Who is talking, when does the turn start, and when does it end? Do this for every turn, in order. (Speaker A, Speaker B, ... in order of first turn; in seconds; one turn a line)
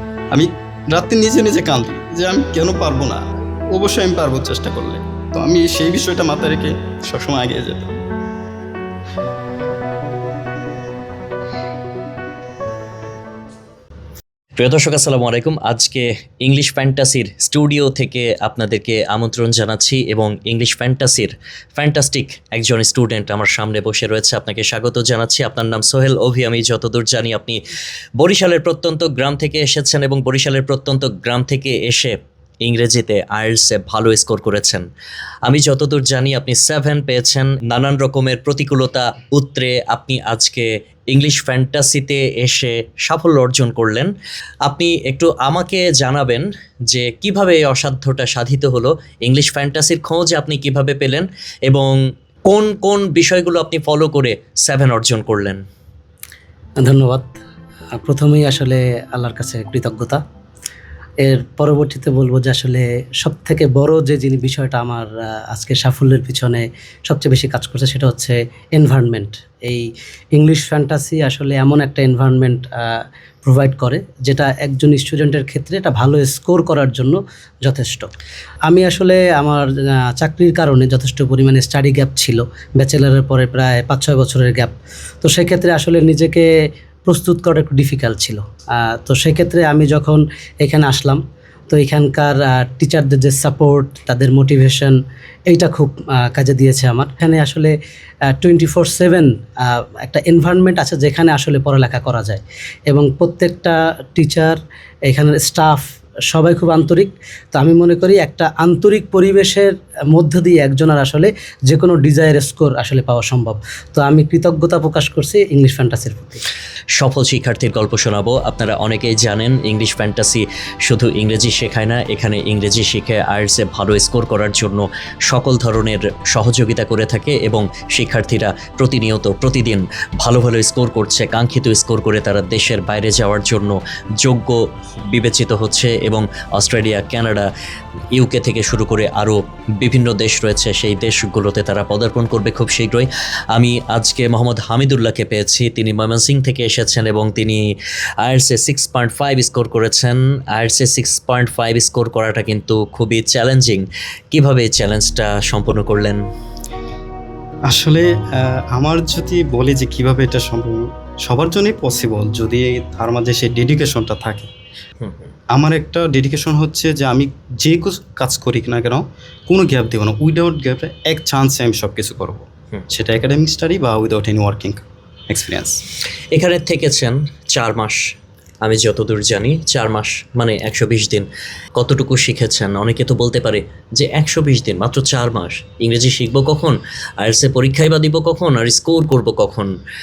Speaker A: 0.3-7.9
Speaker B: 14.6-27.6
Speaker B: 28.2-34.9
Speaker B: 35.5-44.1
Speaker B: 44.6-52.0
Speaker B: 52.5-55.6
Speaker C: 56.8-57.4
Speaker C: 57.9-60.2
Speaker C: 61.2-78.1
Speaker C: 78.7-86.5
Speaker C: 87.1-97.7
Speaker C: 98.3-116.4
Speaker B: 117.0-137.5
Speaker B: 138.1-147.6
Speaker B: 148.2-156.2
Speaker A: 157.7-164.5
Speaker B: 165.0-165.3
Speaker A: 165.5-175.8
Speaker B: 176.3-178.0
Speaker B: 178.6-189.7